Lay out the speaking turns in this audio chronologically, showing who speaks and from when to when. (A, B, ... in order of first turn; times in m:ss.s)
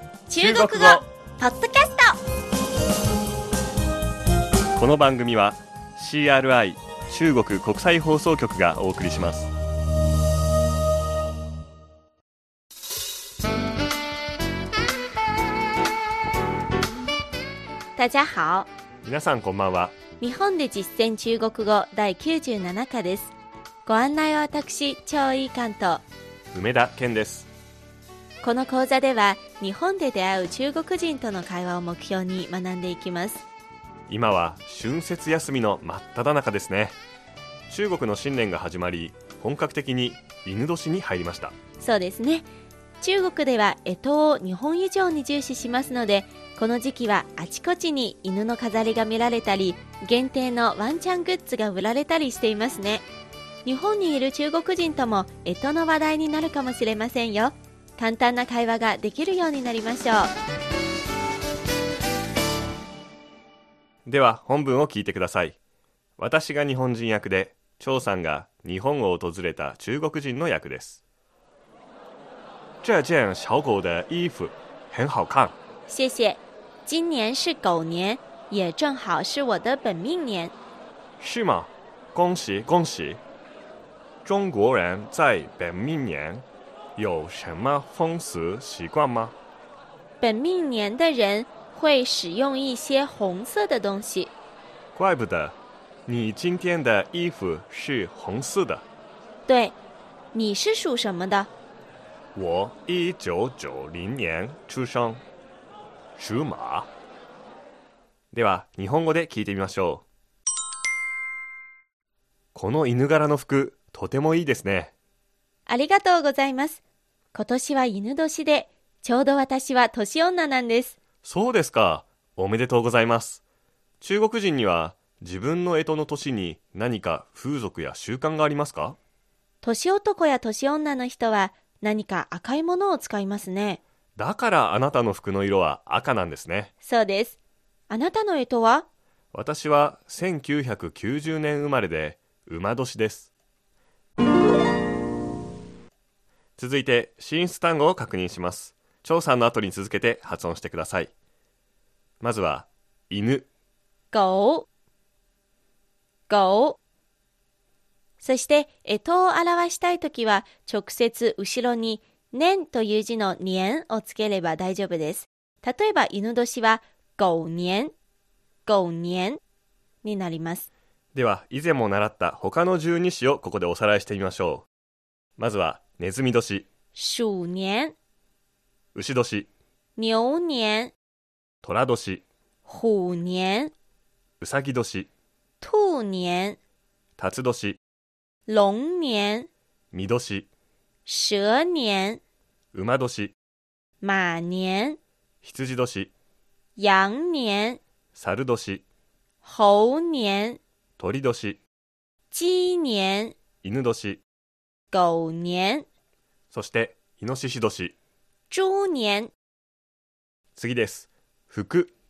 0:00.3-0:02.2 A
0:00.4-0:01.0 B
0:04.8-0:09.5 B
0:18.0-0:18.7 A
0:19.0-0:20.0 B
0:20.2-0:23.3 A
0:23.8-0:26.0 A
0:26.5-0:27.5 B
0:28.4-0:33.4 A
0:34.1-0:37.0 B
0:37.7-0:41.6 B
0:41.8-0:42.5 A
0:43.0-0:53.0 A
0:53.6-1:00.3 A
1:04.0-1:05.6 B
1:06.2-1:11.0 B
1:12.8-1:15.6 B
1:15.9-1:20.5 A
1:21.2-1:23.2 B
1:24.2-1:26.4 B
1:27.0-1:29.3 B
1:30.2-1:34.3 A
1:34.9-1:38.8 B
1:39.5-1:39.8 A
1:40.3-1:41.5 A
1:42.3-1:45.2 B
1:46.2-1:46.9 B
1:48.3-1:50.0 B
1:52.5-1:54.9 B
1:55.7-1:56.8 A
1:57.3-2:01.0 A
2:01.2-2:03.4 B
2:04.0-2:09.0 B
2:09.6-2:13.8 A
2:14.2-2:16.7 B
2:16.8-2:17.4 A
2:17.9-2:18.8 A
2:19.3-2:23.3 B
2:26.6-2:31.1 B
2:32.2-2:33.5 B
2:34.1-2:34.6 A
2:36.3-2:36.8 A
2:38.2-2:47.9 A
2:48.6-2:49.4 A
2:50.0-2:50.7 A
2:51.1-2:54.6 B
2:55.4-2:56.7 B
2:56.9-2:57.9 A
2:58.9-2:59.5 B
3:00.0-3:00.9 A
3:01.6-3:02.2 B
3:02.6-3:03.7 A
3:04.4-3:05.1 B
3:05.6-3:06.6 A
3:07.2-3:07.8 B
3:08.5-3:09.5 A
3:09.9-3:10.5 B
3:11.0-3:12.2 A
3:12.7-3:13.3 B
3:14.0-3:15.0 A
3:15.4-3:16.1 B
3:16.8-3:17.8 A
3:18.1-3:18.8 B
3:19.4-3:20.6 A
3:21.0-3:21.6 B
3:22.3-3:23.4 A
3:23.6-3:24.2 B
3:24.9-3:25.8 A
3:26.5-3:27.9 B
3:28.5-3:29.3 A
3:30.6-3:31.9 B